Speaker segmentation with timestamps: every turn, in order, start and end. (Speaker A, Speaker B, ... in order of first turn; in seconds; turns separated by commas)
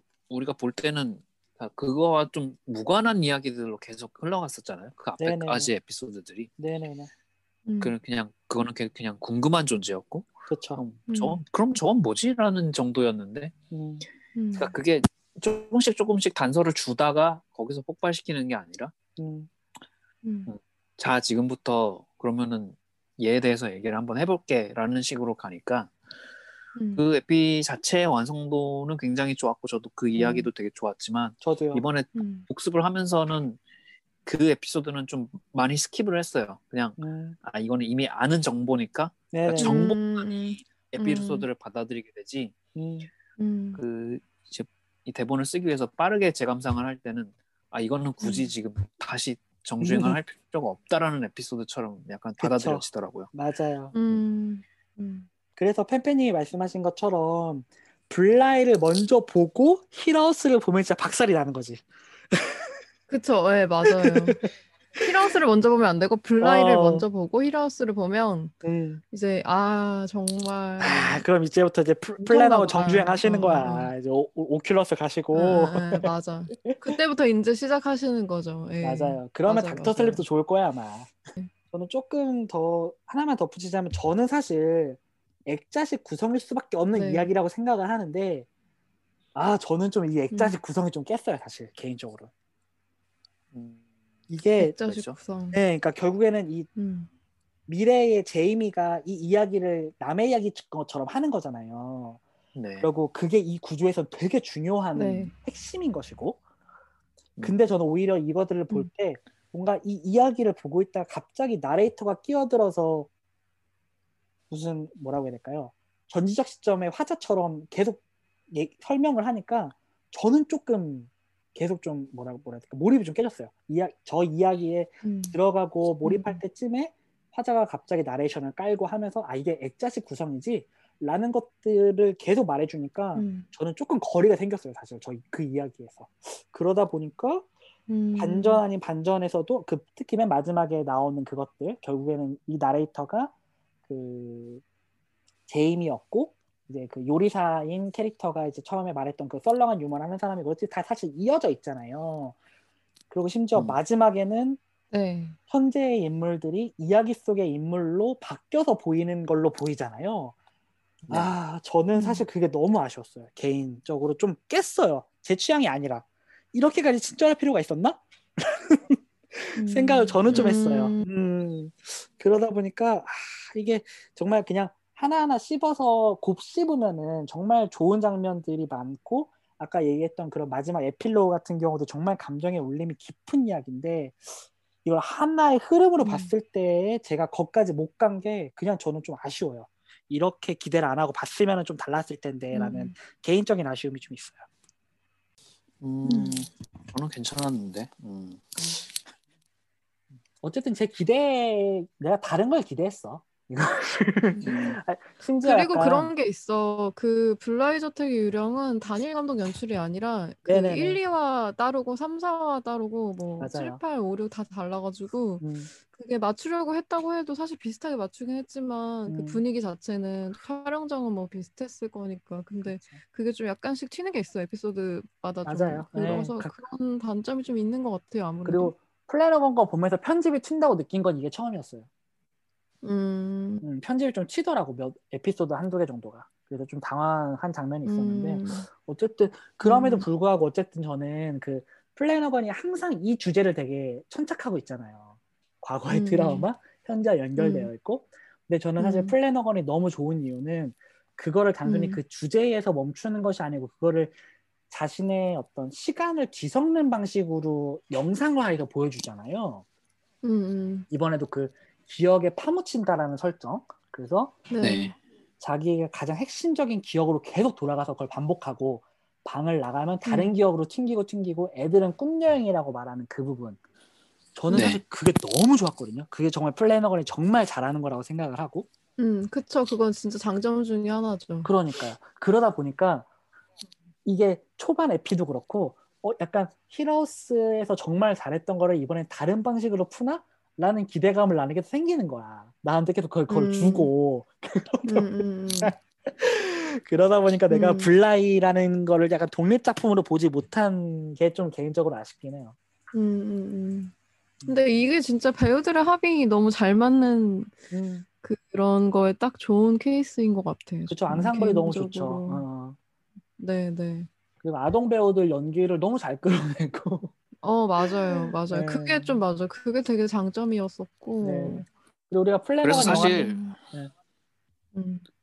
Speaker A: 0.3-6.5, Speaker B: 5.2-5.7, Speaker B: 6.6-7.1, Speaker C: 7.7-7.9, Speaker A: 7.8-13.5, Speaker B: 10.5-10.8, Speaker C: 11.1-11.4, Speaker B: 13.7-14.1, Speaker C: 14.3-14.7, Speaker A: 14.6-18.9, Speaker B: 19.2-19.5, Speaker C: 20.2-20.5, Speaker A: 20.5-25.9, Speaker C: 26.8-27.0, Speaker A: 26.9-33.6, Speaker C: 30.1-30.5, Speaker B: 31.4-31.8, Speaker C: 32.1-32.5, Speaker A: 34.2-40.3, Speaker B: 37.0-37.4, Speaker B: 39.3-39.9, Speaker C: 39.5-41.5, Speaker A: 40.9-42.5, Speaker B: 42.7-43.1, Speaker C: 43.4-43.8, Speaker A: 43.7-53.3, Speaker C: 48.2-48.5, Speaker B: 49.8-50.2, Speaker B: 52.4-53.9, Speaker C: 53.9-55.3, Speaker B: 55.6-62.8, Speaker C: 63.1-64.4, Speaker B: 63.8-65.3, Speaker C: 65.0-68.5, Speaker B: 66.4-67.0, Speaker B: 68.6-69.0, Speaker C: 69.1-71.2, Speaker B: 70.8-77.0, Speaker C: 72.2-73.9, Speaker C: 75.3-80.2, Speaker B: 78.8-81.1, Speaker B: 81.7-88.5, Speaker C: 86.9-87.3, Speaker B: 89.3-92.3, Speaker C: 90.3-90.6, Speaker A: 93.5-93.8, Speaker B: 94.3-94.8, Speaker C: 94.5-95.6, Speaker A: 94.9-95.1, Speaker B: 95.5-96.7, Speaker C: 96.8-97.1, Speaker B: 97.7-102.2, Speaker A: 102.5-102.9, Speaker B: 102.8-106.4, Speaker C: 104.9-105.3, Speaker B: 107.4-113.1, Speaker B: 114.5-137.5, Speaker C: 125.0-125.4, Speaker C: 126.0-126.4, Speaker C: 133.1-133.5, Speaker C: 137.9-138.6, Speaker B: 138.2-143.3, Speaker B: 143.9-144.6, Speaker B: 145.5-152.3, Speaker B: 153.1-154.6, Speaker A: 153.5-153.8, Speaker C: 154.9-155.4, Speaker B: 155.5-160.3, Speaker B: 161.1-194.5, Speaker A: 161.1-161.3, Speaker C: 161.9-162.2, Speaker C: 169.5-171.1, Speaker C: 186.0-186.3, Speaker C: 192.5-192.9, Speaker A: 195.8-198.9, Speaker C: 196.1-196.4, Speaker B: 200.4-206.1, Speaker C: 204.3-204.7, Speaker C: 205.4-228.7, Speaker B: 210.4-211.0, Speaker B: 213.4-213.8, Speaker B: 215.4-215.7, Speaker B: 219.1-219.4, Speaker B: 222.7-223.0, Speaker B: 225.4-226.5, Speaker B: 228.4-231.9, Speaker C: 232.8-233.6, Speaker B: 233.6-254.1, Speaker C: 237.8-238.7, Speaker C: 239.6-240.1, Speaker C: 245.9-246.5, Speaker C: 247.4-247.7, Speaker C: 248.8-249.1, Speaker C: 251.6-252.0, Speaker B: 254.7-259.6, Speaker C: 260.2-260.9, Speaker B: 260.9-264.4, Speaker C: 264.5-264.9, Speaker A: 264.6-264.9, Speaker B: 265.4-273.6, Speaker C: 270.0-270.4, Speaker B: 274.4-278.7, Speaker A: 274.5-274.8, Speaker C: 279.0-281.5, Speaker B: 281.4-283.1, Speaker B: 284.0-295.1, Speaker C: 293.3-293.9, Speaker C: 294.8-295.7, Speaker B: 295.6-302.5, Speaker C: 297.5-297.9, Speaker C: 302.9-303.9, Speaker C: 304.4-307.6, Speaker B: 307.7-308.1, Speaker C: 308.2-312.4, Speaker B: 310.9-312.8, Speaker C: 313.4-314.1, Speaker B: 314.4-317.1, Speaker C: 317.4-321.7, Speaker B: 317.8-319.2, Speaker B: 321.2-323.9, Speaker A: 322.6-323.5, Speaker C: 322.8-323.6, Speaker C: 324.7-325.0